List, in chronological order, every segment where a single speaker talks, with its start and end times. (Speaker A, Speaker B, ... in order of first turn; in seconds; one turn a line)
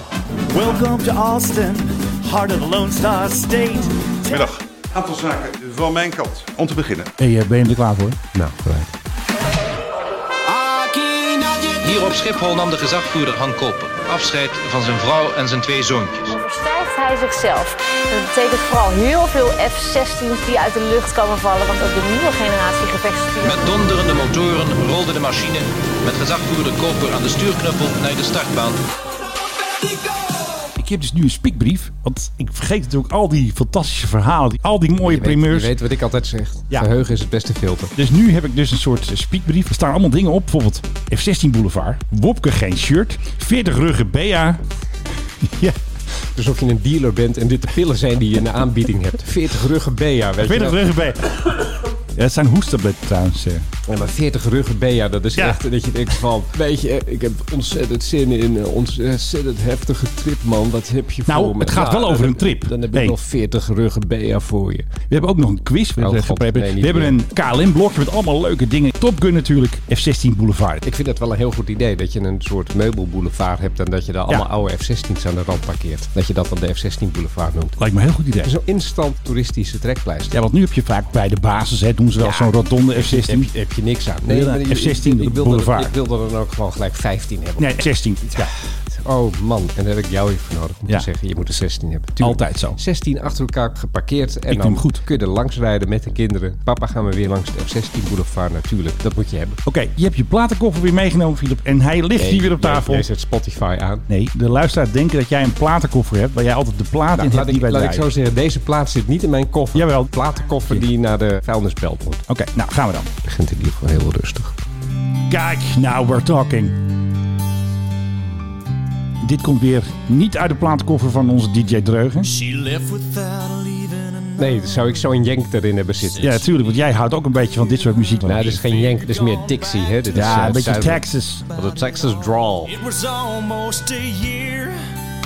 Speaker A: 0.5-4.5
Speaker B: 4.3-7.1
Speaker C: 7.2-8.2
Speaker D: 8.3-8.9
Speaker E: 11.7-16.4
Speaker F: 16.3-23.7
Speaker E: 23.4-28.8
Speaker C: 30.8-35.8
Speaker D: 35.0-37.9
Speaker C: 38.0-44.6
Speaker C: 45.4-45.8
Speaker D: 46.4-50.9
Speaker C: 50.4-53.7
Speaker D: 53.9-65.0
Speaker C: 55.4-55.6
Speaker C: 61.3-63.2
Speaker C: 65.1-70.8
Speaker D: 66.0-67.2
Speaker D: 70.8-77.8
Speaker C: 77.8-78.5
Speaker D: 78.4-80.4
Speaker C: 80.3-83.5
Speaker D: 82.2-99.6
Speaker C: 84.2-85.9
Speaker C: 87.6-88.5
Speaker C: 92.2-92.8
Speaker C: 94.5-95.0
Speaker C: 99.7-103.1
Speaker D: 102.2-104.1
Speaker C: 104.1-108.1
Speaker D: 107.2-112.2
Speaker C: 109.7-110.8
Speaker C: 112.3-113.1
Speaker D: 113.2-114.6
Speaker C: 115.3-116.8
Speaker C: 119.2-122.3
Speaker A: 122.2-125.0
Speaker D: 124.4-126.5
Speaker A: 126.0-126.8
Speaker C: 126.2-128.6
Speaker D: 128.2-131.0
Speaker A: 128.4-130.1
Speaker C: 130.1-131.5
Speaker A: 131.5-134.8
Speaker D: 131.6-132.7